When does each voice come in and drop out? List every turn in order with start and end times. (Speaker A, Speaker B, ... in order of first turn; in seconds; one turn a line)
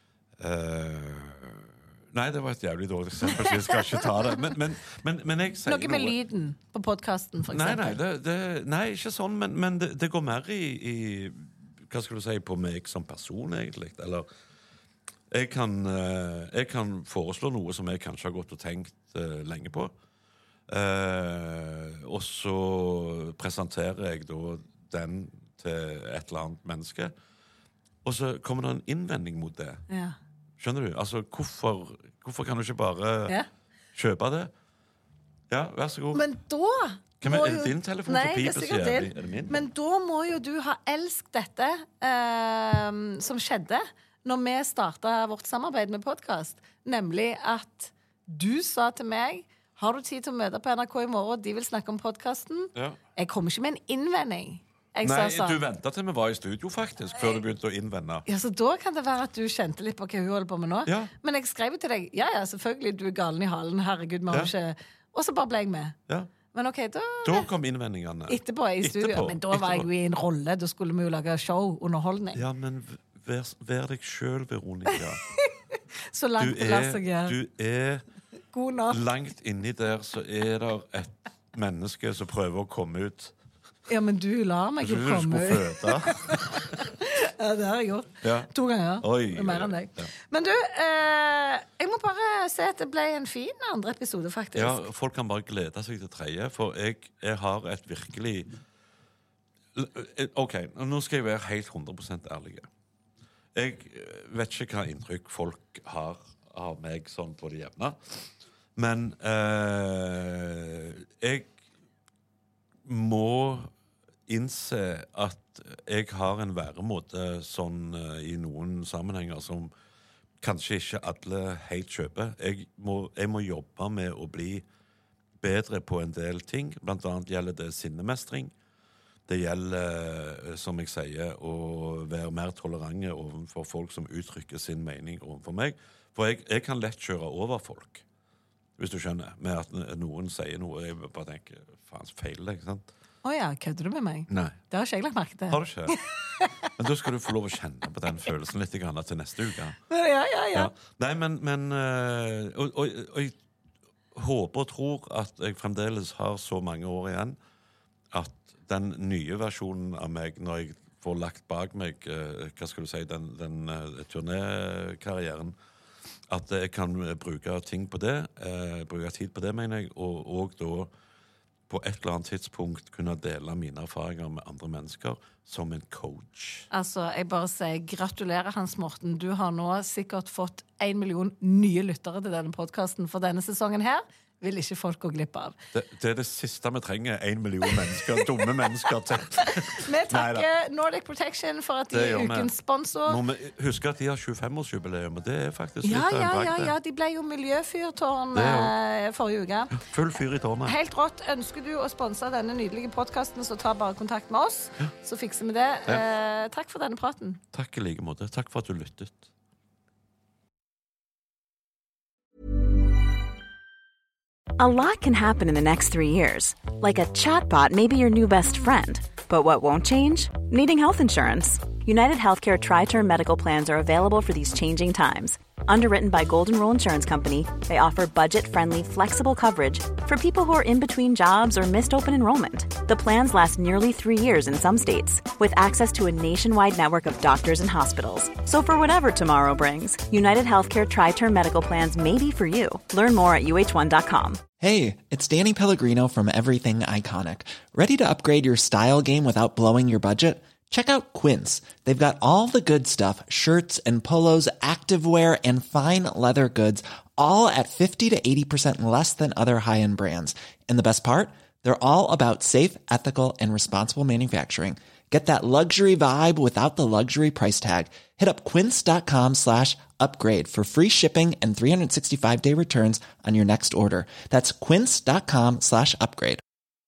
Speaker A: 0.4-6.2
Speaker B: 5.7-8.0
Speaker A: 7.5-14.3
Speaker A: 15.3-19.9
Speaker A: 20.7-27.1
Speaker A: 28.0-29.8
Speaker B: 29.9-30.1
Speaker A: 30.6-33.4
Speaker A: 33.9-34.5
Speaker A: 35.5-36.2
Speaker B: 36.1-55.6
Speaker A: 37.2-39.6
Speaker A: 55.0-58.2
Speaker B: 58.2-65.9
Speaker A: 60.9-61.1
Speaker B: 66.5-67.5
Speaker A: 67.2-69.9
Speaker B: 68.3-72.4
Speaker A: 72.3-75.2
Speaker B: 74.9-75.5
Speaker B: 76.1-77.3
Speaker A: 76.4-78.0
Speaker B: 78.5-79.0
Speaker A: 78.9-83.3
Speaker B: 83.9-94.8
Speaker A: 84.8-86.8
Speaker A: 88.2-90.1
Speaker A: 94.5-98.5
Speaker A: 99.7-102.7
Speaker A: 103.5-108.2
Speaker A: 108.8-111.5
Speaker A: 112.8-113.7
Speaker A: 114.3-119.7
Speaker A: 120.4-124.6
Speaker A: 125.4-128.5
Speaker A: 129.3-138.0
Speaker A: 138.8-142.8
Speaker B: 143.2-146.7
Speaker A: 144.3-144.6
Speaker A: 145.5-145.9
Speaker A: 146.8-149.8
Speaker B: 149.9-150.7
Speaker A: 150.5-153.3
Speaker A: 154.1-157.3
Speaker A: 158.1-165.5
Speaker A: 166.3-170.9
Speaker A: 171.7-176.7
Speaker B: 176.7-185.5
Speaker A: 185.7-190.4
Speaker B: 187.7-188.2
Speaker B: 189.4-193.2
Speaker A: 191.9-192.5
Speaker A: 193.1-196.7
Speaker B: 195.8-199.8
Speaker A: 198.3-198.7
Speaker A: 199.7-200.7
Speaker B: 200.7-207.4
Speaker A: 207.5-209.3
Speaker C: 214.6-244.4
Speaker D: 244.6-276.4